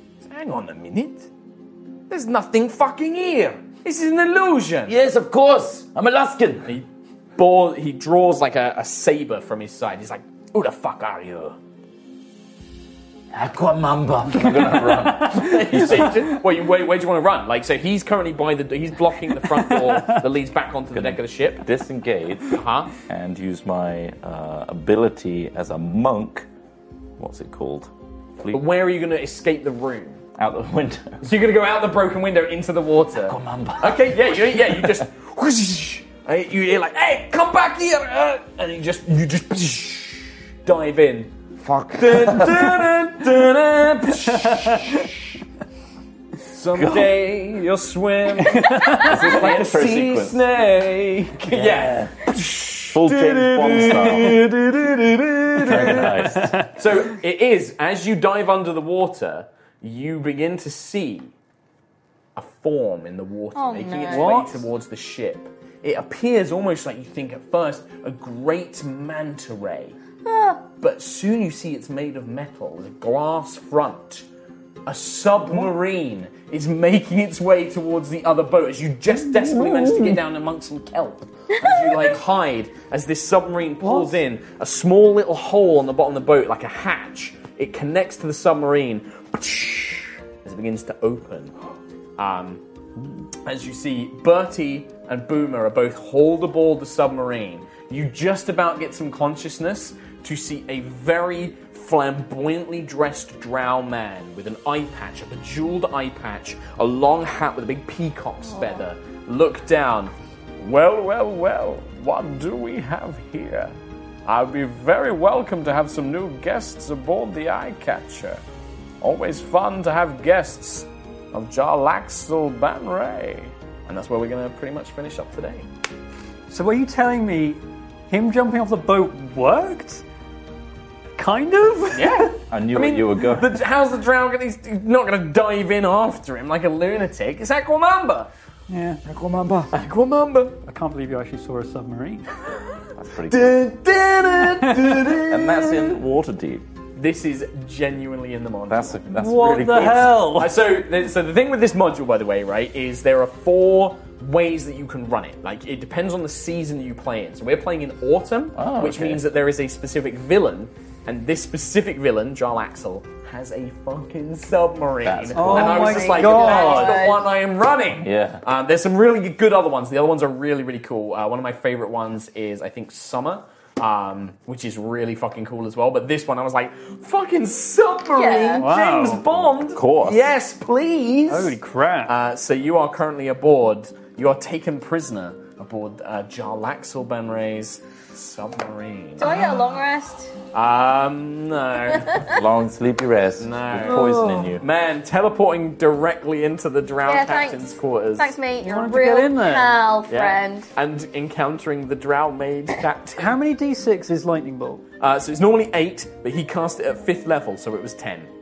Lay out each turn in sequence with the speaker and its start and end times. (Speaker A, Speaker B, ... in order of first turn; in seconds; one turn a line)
Speaker A: 0.2-1.3
Speaker A: 2.1-4.9
Speaker B: 4.8-6.8
Speaker A: 6.7-11.6
Speaker B: 13.3-15.4
Speaker C: 14.3-16.1
Speaker A: 14.9-21.6
Speaker D: 19.7-20.2
Speaker C: 20.9-26.5
Speaker A: 22.5-22.9
Speaker C: 27.2-28.6
Speaker A: 28.5-30.2
Speaker C: 30.4-31.2
Speaker A: 31.2-41.3
Speaker B: 33.2-34.4
Speaker B: 41.6-42.9
Speaker A: 41.9-45.4
Speaker D: 44.4-45.0
Speaker A: 46.5-61.3
Speaker D: 48.4-49.1
Speaker C: 48.9-50.4
Speaker C: 51.5-52.1
Speaker B: 51.5-51.9
Speaker C: 52.9-54.4
Speaker C: 55.6-56.7
Speaker D: 56.4-56.7
Speaker A: 62.3-70.0
Speaker E: 63.5-64.3
Speaker D: 64.1-64.6
Speaker E: 70.2-70.6
Speaker A: 70.8-74.2
Speaker A: 74.8-91.5
Speaker D: 79.2-80.2
Speaker D: 83.8-84.1
Speaker A: 92.2-92.6
Speaker A: 93.4-113.7
Speaker E: 108.5-108.8
Speaker A: 114.2-118.4
Speaker A: 119.0-125.7
Speaker D: 126.5-130.0
Speaker D: 131.2-132.3
Speaker A: 131.9-138.3
Speaker C: 132.5-133.6
Speaker D: 138.7-139.0
Speaker B: 139.0-139.7
Speaker A: 139.7-140.6
Speaker D: 140.6-142.2
Speaker C: 142.9-143.6
Speaker A: 143.3-146.0
Speaker D: 144.6-145.0
Speaker C: 145.1-146.6
Speaker A: 146.9-149.0
Speaker C: 148.7-150.2
Speaker D: 149.1-150.6
Speaker A: 149.9-189.3
Speaker C: 158.6-159.2
Speaker C: 165.0-165.9
Speaker D: 165.3-167.1
Speaker E: 165.4-167.2
Speaker C: 168.0-168.4
Speaker E: 178.1-178.7
Speaker D: 178.6-179.2
Speaker C: 179.7-180.3
Speaker D: 181.3-182.1
Speaker E: 189.2-190.3
Speaker A: 190.5-192.3
Speaker C: 192.2-194.7
Speaker A: 193.4-198.4
Speaker D: 193.8-194.6
Speaker E: 197.0-200.7
Speaker D: 198.6-199.8
Speaker A: 200.1-203.3
Speaker D: 203.2-204.8
Speaker A: 205.0-208.3